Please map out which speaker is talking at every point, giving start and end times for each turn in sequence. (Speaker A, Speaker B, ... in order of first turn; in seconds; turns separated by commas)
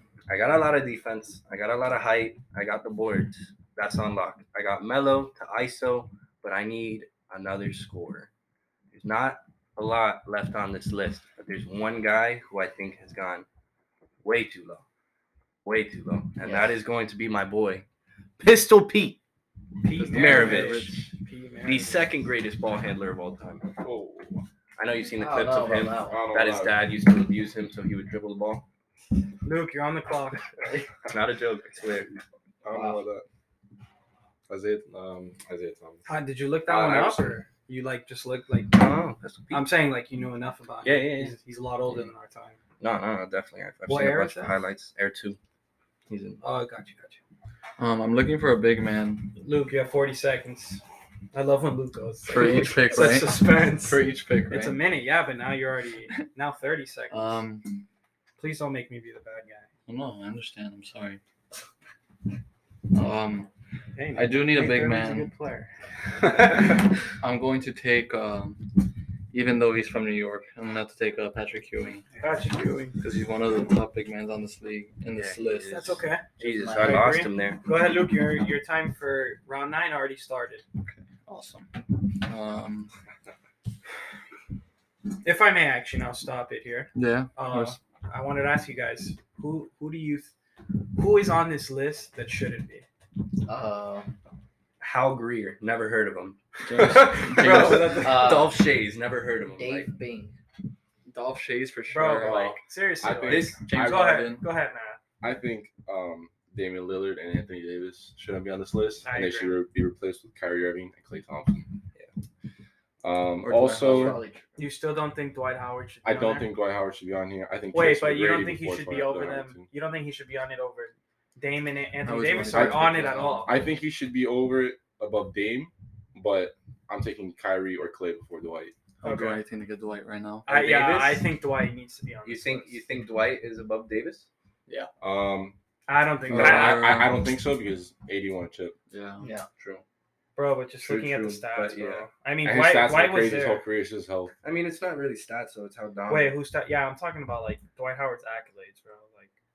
Speaker A: 0.3-8.3, Speaker A: 8.9-13.4, Speaker A: 14.2-14.8, Speaker A: 15.6-17.8, Speaker B: 16.4-16.8, Speaker A: 18.4-19.2, Speaker C: 19.8-22.1, Speaker D: 20.0-21.0, Speaker A: 20.0-20.9, Speaker A: 21.6-23.7, Speaker E: 23.8-24.4, Speaker A: 24.8-28.6, Speaker B: 25.2-26.2, Speaker E: 26.0-26.9, Speaker C: 29.4-30.7, Speaker A: 31.1-32.2, Speaker E: 32.6-33.2, Speaker B: 32.7-33.0, Speaker E: 34.5-36.1, Speaker C: 36.0-38.8, Speaker E: 36.6-37.4, Speaker A: 38.7-39.7, Speaker C: 39.5-42.6, Speaker A: 40.8-41.4, Speaker A: 42.8-45.4, Speaker C: 43.9-44.5, Speaker A: 46.1-46.4, Speaker C: 46.4-47.2, Speaker D: 47.8-49.4, Speaker C: 49.4-50.8, Speaker C: 51.3-57.4, Speaker D: 52.3-54.8, Speaker D: 57.1-57.8, Speaker C: 58.4-59.7, Speaker D: 59.9-61.2, Speaker D: 62.9-63.5, Speaker C: 63.9-65.7, Speaker D: 64.1-65.3, Speaker D: 67.1-72.0, Speaker C: 72.2-73.0, Speaker D: 73.0-76.0, Speaker A: 75.1-77.6, Speaker C: 75.7-80.6, Speaker B: 76.4-77.2, Speaker D: 80.8-82.9, Speaker C: 85.2-90.3, Speaker D: 86.9-87.8, Speaker C: 90.9-92.8, Speaker B: 93.4-94.1, Speaker A: 94.8-99.9, Speaker D: 96.7-98.2, Speaker C: 96.8-98.3, Speaker B: 97.9-98.6, Speaker B: 99.6-100.3, Speaker D: 101.1-102.5, Speaker C: 101.9-105.0, Speaker E: 102.2-104.3, Speaker A: 103.2-103.7, Speaker D: 103.7-104.5, Speaker E: 105.2-111.7, Speaker C: 109.0-109.6, Speaker E: 113.0-114.2, Speaker D: 113.4-114.2, Speaker B: 113.7-114.5, Speaker C: 114.5-116.5, Speaker E: 116.0-119.7, Speaker C: 117.7-123.5, Speaker D: 122.0-123.5, Speaker E: 122.5-128.7, Speaker C: 129.0-129.4, Speaker D: 129.0-130.5, Speaker A: 130.4-131.3, Speaker C: 130.4-132.8, Speaker A: 132.2-134.2, Speaker E: 135.0-135.5, Speaker C: 135.9-137.0, Speaker E: 136.2-138.8, Speaker D: 136.3-137.2, Speaker D: 138.9-139.2, Speaker B: 139.2-139.5, Speaker C: 140.3-143.6, Speaker E: 140.8-141.5, Speaker A: 141.5-142.1, Speaker E: 142.4-144.3, Speaker A: 144.4-146.4, Speaker C: 146.1-149.3